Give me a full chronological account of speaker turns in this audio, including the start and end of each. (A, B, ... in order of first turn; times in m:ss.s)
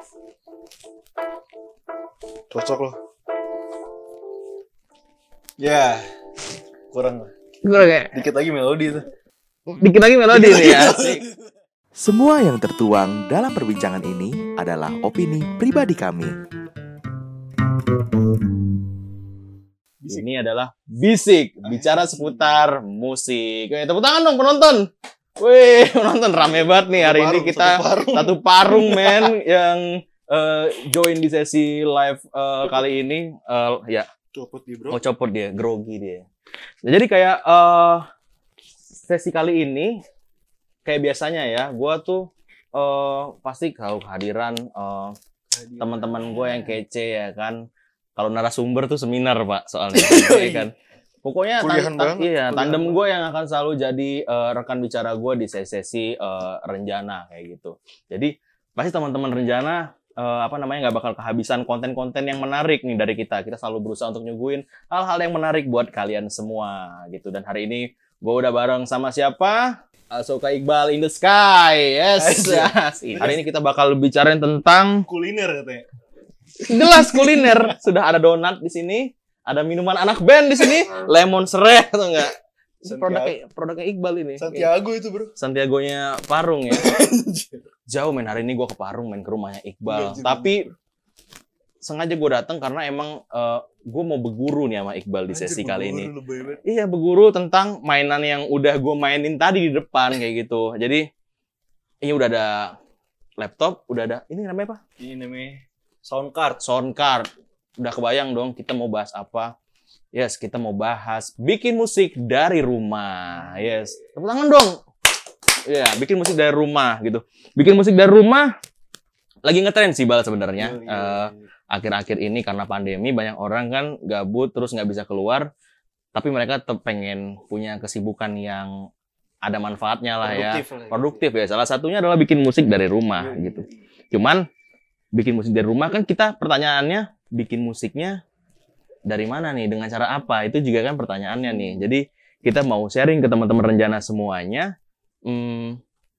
0:02.5-0:03.0 A
0:05.6-0:06.0 A
0:06.9-0:07.3 A
0:07.6-0:08.2 B
0:08.1-0:09.1 A
0:09.7-0:11.2 B
0:10.3-0:11.4 A
0:12.0-0:16.3 C
0:20.1-0:34.1 B
0:21.6-0:22.6 A
0:26.4-0:29.4 A
0:34.3-0:35.0 A
0:34.9-0:36.2 B
0:36.8-0:38.1 B
0:38.9-0:40.0 B
0:40.8-0:45.2 B
0:45.5-0:46.8 A
0:45.8-0:47.6 B
0:48.2-0:50.7 B
0:49.9-0:50.7 A
0:51.2-1:15.1 B
0:51.6-0:53.0 A
1:12.2-1:13.4 A
1:15.0-1:15.9 A
1:16.6-1:24.7 B
1:16.9-1:17.7 A
1:22.8-1:23.4 A
1:24.4-1:25.3 A
1:25.4-1:27.0 B
1:26.7-1:27.7 A
1:27.9-1:30.6 B
1:29.8-1:30.6 A
1:31.8-1:36.1 B
1:35.3-1:36.6 A
1:36.6-1:41.1 B
1:42.0-1:42.8 B
1:43.4-1:44.8 B
1:45.0-1:46.6 A
1:46.6-1:49.5 B
1:50.1-1:54.8 B
1:53.3-1:54.0 A
1:55.6-1:58.5 B
1:59.4-2:05.5 B
2:00.6-2:01.5 A
2:06.1-2:08.8 B
2:09.4-2:14.5 B
2:10.2-2:11.3 A
2:13.2-2:13.9 A
2:15.1-2:18.2 B
2:19.1-2:24.7 B
2:21.4-2:21.8 A
2:25.2-2:25.8 B